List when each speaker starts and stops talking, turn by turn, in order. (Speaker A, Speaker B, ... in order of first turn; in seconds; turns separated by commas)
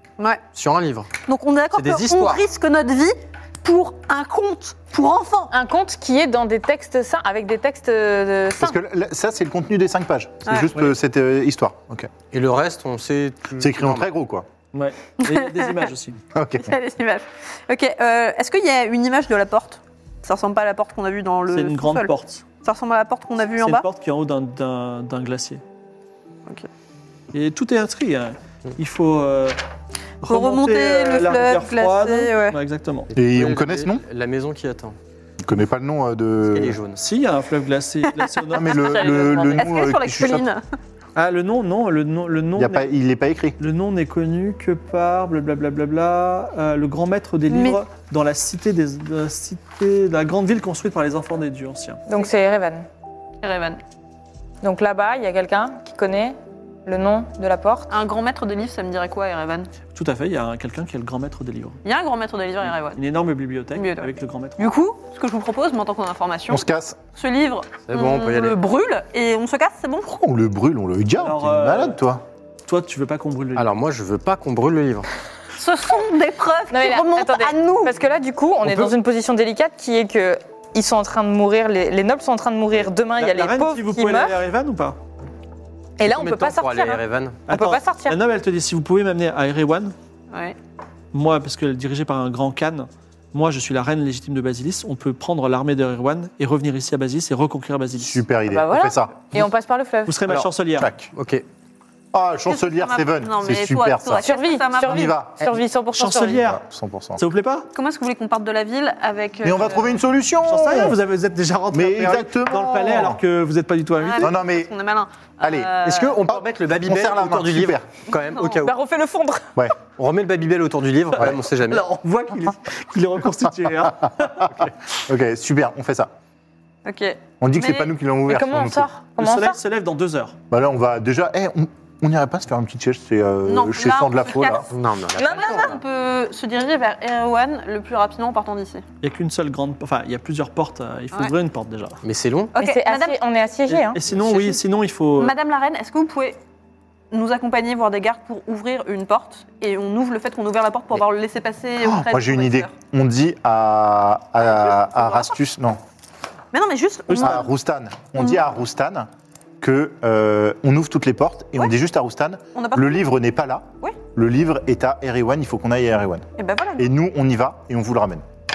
Speaker A: 0.5-1.1, Speaker B: 1.3-5.5, Speaker A: 1.7-2.4, Speaker C: 5.5-8.8, Speaker D: 8.6-12.1, Speaker A: 12.3-14.1, Speaker D: 13.6-14.4, Speaker E: 14.7-16.2, Speaker B: 15.2-15.8, Speaker D: 16.3-16.7, Speaker B: 16.6-23.9, Speaker E: 21.5-22.4, Speaker E: 23.6-25.6, Speaker E: 27.3-29.6, Speaker E: 30.2-33.1, Speaker B: 30.2-32.6, Speaker D: 33.1-34.0, Speaker A: 33.1-35.0, Speaker D: 35.4-36.8, Speaker A: 36.5-37.0, Speaker E: 37.0-39.4, Speaker D: 38.5-40.5, Speaker B: 38.7-40.6, Speaker C: 38.8-39.7, Speaker E: 41.1-42.9, Speaker D: 42.5-43.6, Speaker E: 43.6-52.0, Speaker B: 47.5-47.8, Speaker C: 52.1-52.9, Speaker B: 53.4-53.8, Speaker C: 54.6-57.9, Speaker B: 57.9-59.7, Speaker E: 59.9-61.8, Speaker B: 61.8-63.0, Speaker E: 62.9-64.8, Speaker B: 63.7-70.1, Speaker D: 66.5-67.0, Speaker A: 67.9-68.6, Speaker D: 70.0-72.2, Speaker E: 71.2-72.0, Speaker E: 72.7-73.7, Speaker A: 73.5-75.1, Speaker B: 75.6-77.9, Speaker C: 76.7-84.4, Speaker A: 78.6-78.9, Speaker E: 83.2-85.0, Speaker C: 86.0-88.2, Speaker A: 86.0-87.5, Speaker E: 87.5-89.9, Speaker B: 90.3-90.6, Speaker E: 91.1-98.2, Speaker D: 98.0-99.4, Speaker C: 98.5-100.2, Speaker E: 100.1-100.9, Speaker D: 100.8-101.1, Speaker A: 101.1-101.4, Speaker D: 102.1-105.5, Speaker B: 102.5-105.2, Speaker C: 104.2-106.4, Speaker E: 105.9-106.6, Speaker D: 106.4-107.2, Speaker E: 107.2-107.7, Speaker B: 107.7-110.0, Speaker D: 109.4-111.0, Speaker E: 110.4-114.3, Speaker D: 111.7-113.2, Speaker B: 114.0-116.2, Speaker D: 114.2-114.7, Speaker D: 115.4-115.7, Speaker A: 115.8-118.8, Speaker D: 116.3-117.8, Speaker B: 118.2-118.6, Speaker C: 118.6-119.5, Speaker A: 119.9-121.9, Speaker E: 121.6-124.6, Speaker D: 124.0-126.1, Speaker B: 126.8-127.9, Speaker D: 127.4-128.9, Speaker C: 128.3-129.6, Speaker E: 129.2-130.3, Speaker D: 130.5-134.7, Speaker B: 133.5-138.8, Speaker A: 134.4-135.8, Speaker C: 135.2-135.7, Speaker E: 139.0-142.0, Speaker A: 142.0-142.5, Speaker B: 142.5-143.2, Speaker C: 142.6-144.0, Speaker E: 143.7-145.3, Speaker B: 144.1-144.6, Speaker B: 145.2-146.4, Speaker B: 147.1-152.7, Speaker D: 151.8-155.8, Speaker B: 154.4-155.3, Speaker B: 156.5-157.5, Speaker D: 157.1-159.1, Speaker E: 157.1-157.4, Speaker B: 158.2-158.4, Speaker D: 159.6-166.2, Speaker B: 162.5-163.1, Speaker B: 166.4-166.9, Speaker D: 166.8-168.2